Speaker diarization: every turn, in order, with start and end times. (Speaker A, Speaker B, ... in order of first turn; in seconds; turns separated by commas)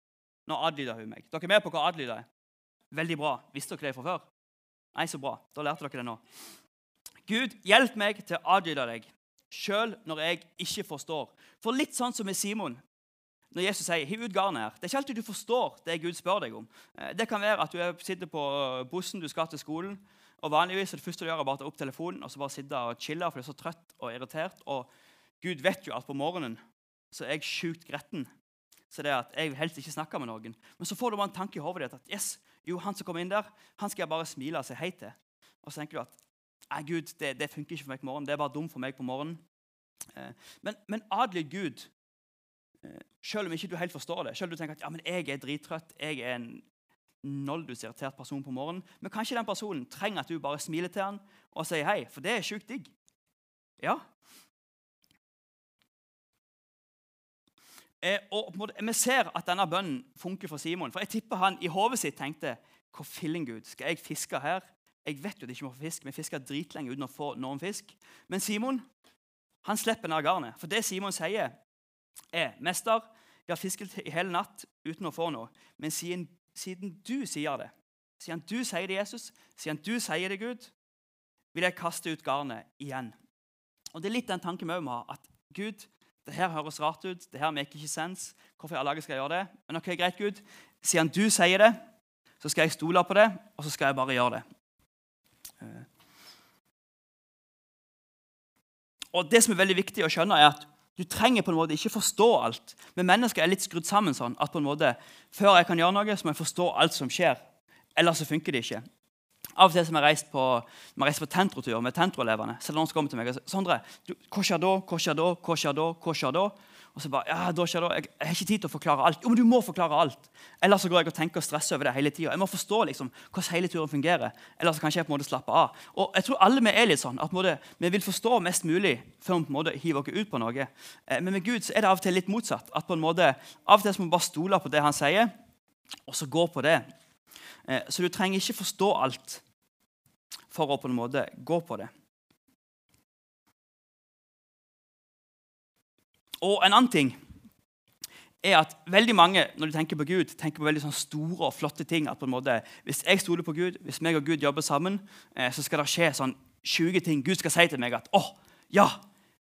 Speaker A: 0.5-2.3, Speaker A: 2.9-4.3, Speaker A: 5.0-6.2, Speaker A: 7.3-12.8, Speaker A: 13.5-24.9, Speaker A: 25.4-26.6, Speaker A: 27.1-28.3, Speaker A: 28.9-36.1, Speaker A: 36.7-39.4, Speaker A: 40.1-41.9, Speaker A: 42.8-46.6, Speaker A: 47.2-52.9, Speaker A: 53.8-54.1, Speaker A: 58.0-68.8, Speaker A: 69.6-71.5, Speaker A: 72.3-80.7, Speaker A: 81.5-83.2, Speaker A: 83.9-91.8, Speaker A: 92.4-94.5, Speaker A: 99.1-107.4, Speaker A: 108.0-108.8, Speaker A: 109.6-135.3, Speaker A: 136.1-136.8, Speaker A: 137.7-139.4, Speaker A: 140.5-141.9, Speaker A: 146.4-147.2, Speaker A: 148.4-159.0